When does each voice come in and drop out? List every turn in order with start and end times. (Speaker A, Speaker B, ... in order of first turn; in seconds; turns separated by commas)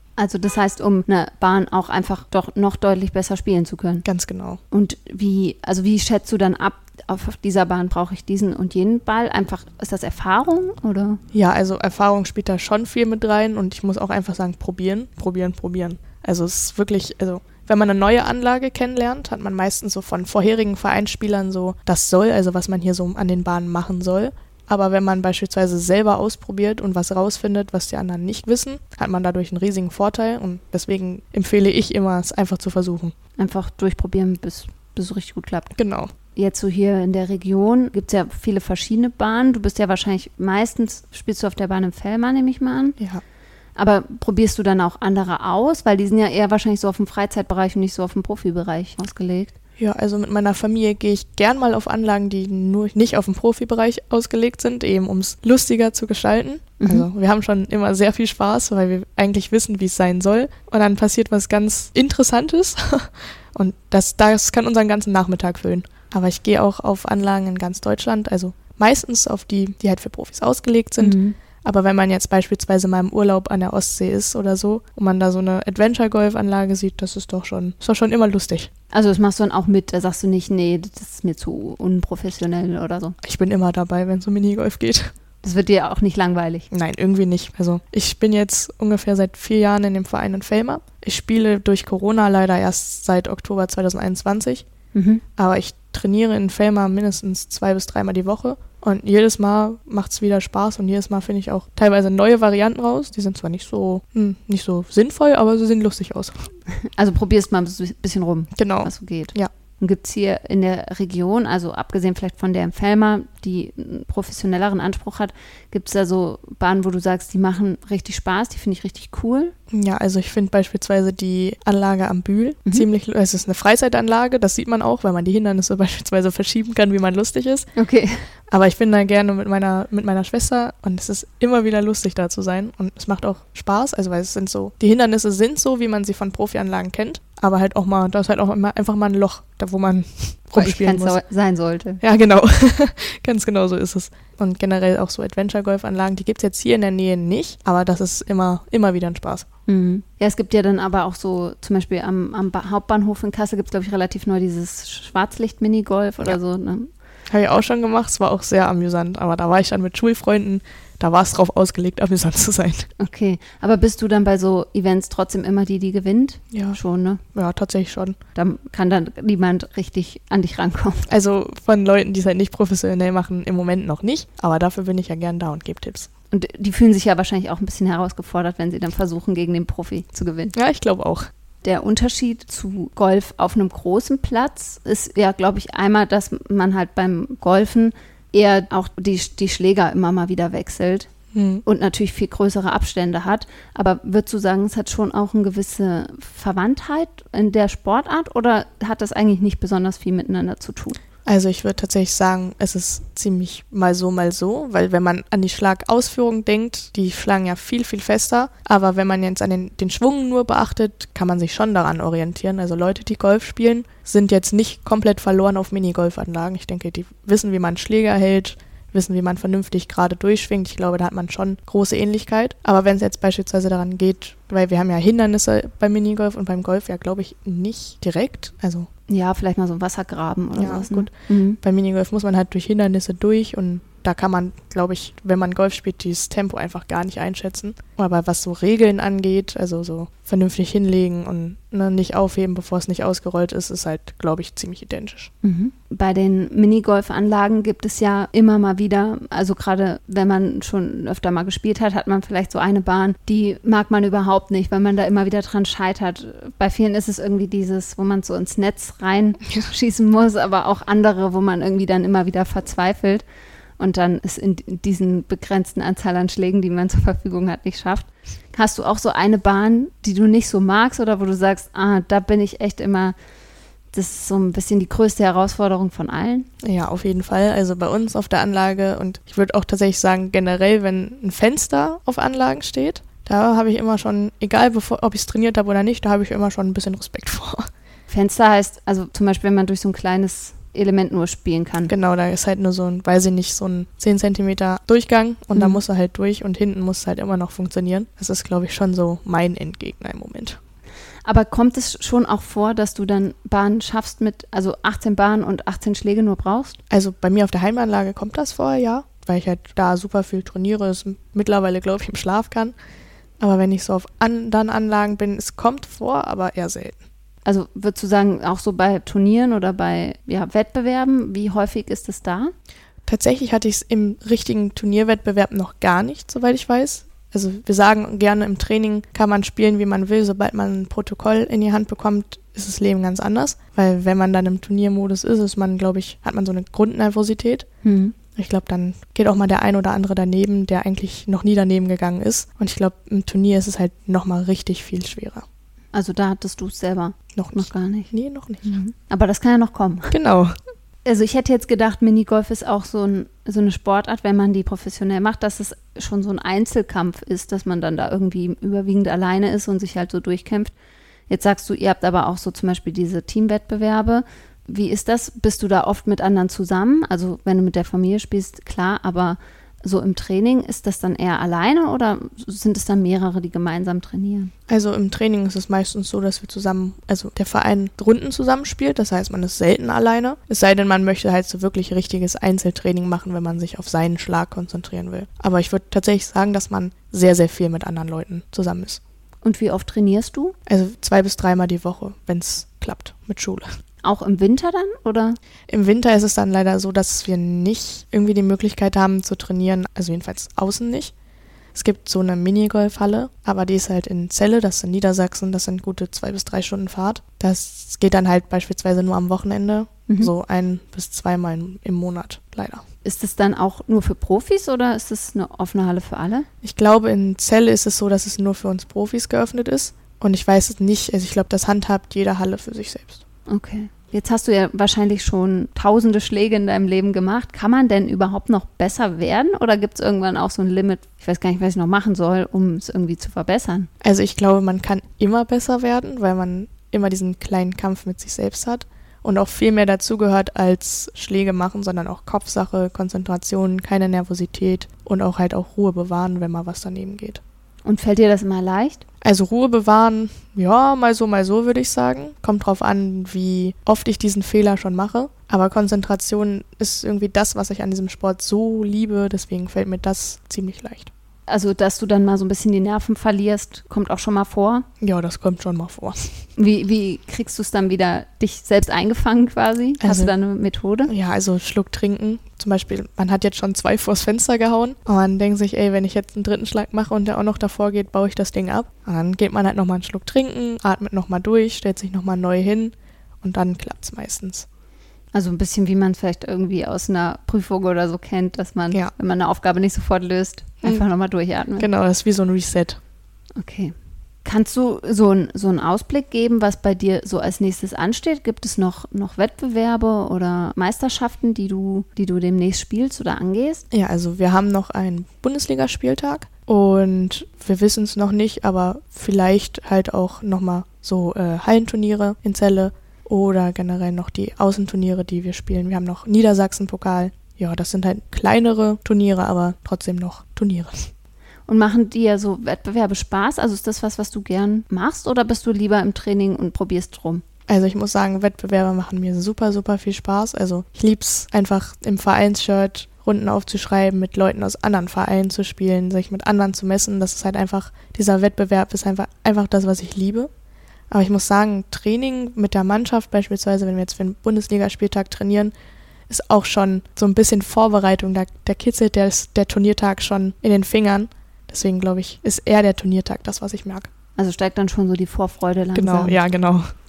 Speaker A: 0.2-4.1, Speaker B: 4.0-4.6, Speaker A: 4.7-11.2, Speaker B: 11.3-33.1, Speaker A: 33.4-35.8, Speaker B: 35.8-36.1, Speaker A: 36.4-43.0, Speaker A: 43.8-49.5, Speaker B: 49.8-78.7, Speaker A: 56.8-57.1, Speaker A: 71.0-71.4, Speaker A: 78.9-83.2, Speaker B: 83.2-85.1, Speaker A: 85.4-86.7, Speaker B: 86.7-94.7, Speaker A: 94.9-95.2, Speaker B: 95.4-106.5, Speaker A: 106.8-119.5, Speaker B: 108.6-109.5, Speaker B: 119.7-127.7, Speaker A: 127.8-128.3, Speaker B: 128.5-141.2, Speaker A: 140.5-142.0, Speaker B: 142.0-149.5, Speaker A: 149.7-156.9, Speaker B: 157.3-162.9, Speaker A: 163.0-167.2, Speaker B: 166.5-166.8, Speaker B: 167.3-168.2, Speaker A: 168.3-171.1, Speaker B: 171.1-176.1, Speaker A: 176.3-180.6, Speaker B: 180.5-181.3, Speaker A: 181.6-191.1, Speaker B: 191.3-191.6, Speaker A: 191.6-201.0, Speaker B: 201.2-228.9, Speaker A: 229.1-231.6, Speaker B: 230.6-245.3, Speaker A: 245.4-263.2, Speaker A: 263.8-273.2, Speaker A: 273.9-276.5, Speaker B: 276.6-287.7, Speaker A: 288.1-291.9, Speaker B: 291.9-300.6, Speaker A: 295.6-295.8, Speaker A: 301.2-306.8, Speaker B: 306.9-312.8, Speaker B: 313.4-317.0, Speaker A: 317.4-322.5, Speaker B: 323.1-337.7, Speaker A: 337.8-338.1, Speaker B: 338.4-345.4, Speaker A: 345.9-348.1, Speaker B: 347.4-348.8, Speaker A: 348.6-350.2, Speaker B: 350.1-350.5, Speaker A: 351.1-360.8, Speaker A: 361.3-374.5, Speaker B: 374.7-389.0, Speaker A: 389.4-390.6, Speaker B: 390.7-393.7, Speaker A: 394.0-395.4, Speaker B: 395.7-401.1, Speaker B: 401.8-412.8, Speaker A: 413.0-416.5, Speaker B: 416.6-423.2, Speaker A: 423.5-433.9, Speaker B: 434.0-447.4, Speaker A: 447.8-449.0, Speaker B: 449.2-461.1, Speaker A: 461.5-464.9, Speaker B: 465.0-466.5, Speaker A: 466.6-471.1, Speaker B: 470.0-470.3, Speaker B: 471.1-484.7, Speaker A: 485.3-491.9, Speaker B: 491.8-493.0, Speaker A: 493.6-503.8, Speaker B: 503.9-521.1, Speaker A: 521.7-527.4, Speaker B: 527.7-540.5, Speaker B: 541.1-545.7, Speaker B: 546.3-554.1, Speaker A: 554.4-556.4, Speaker B: 556.0-556.9